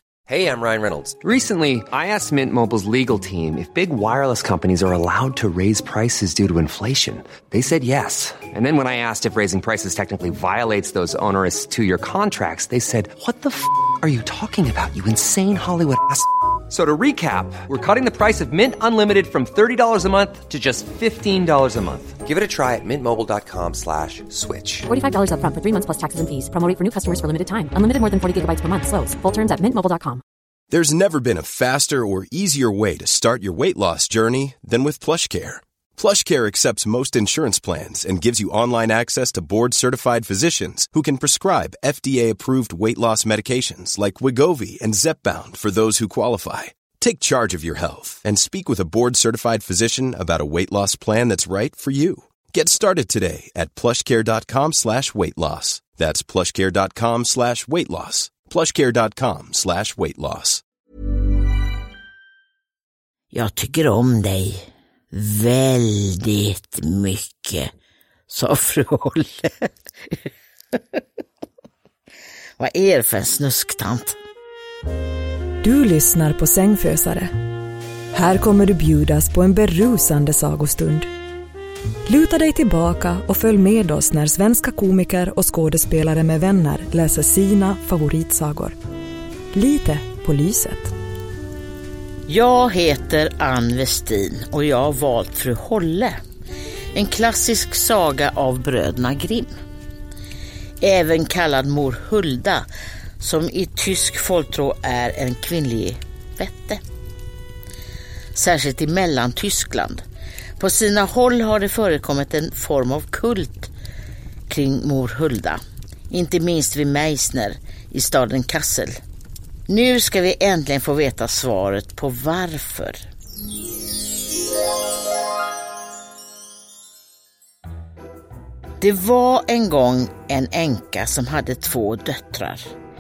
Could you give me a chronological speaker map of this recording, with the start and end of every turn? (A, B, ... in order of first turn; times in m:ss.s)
0:00.3-0:24.9 A
0:24.9-0:30.2 B
0:30.7-1:00.6 C
1:03.3-1:07.7 D
1:08.3-1:09.7 D
1:12.6-1:14.2 D
1:15.6-1:17.3 E
1:18.1-1:21.1 E
1:22.1-1:28.8 E
1:29.5-1:30.9 E
1:32.3-1:36.2 D
1:37.0-1:39.5 D
1:40.8-1:42.7 D
1:43.2-1:46.8 D
1:48.4-1:50.0 D
1:50.6-1:53.7 D
1:54.5-1:59.0 D
1:59.7-2:03.0 D
2:08.8-2:12.6 D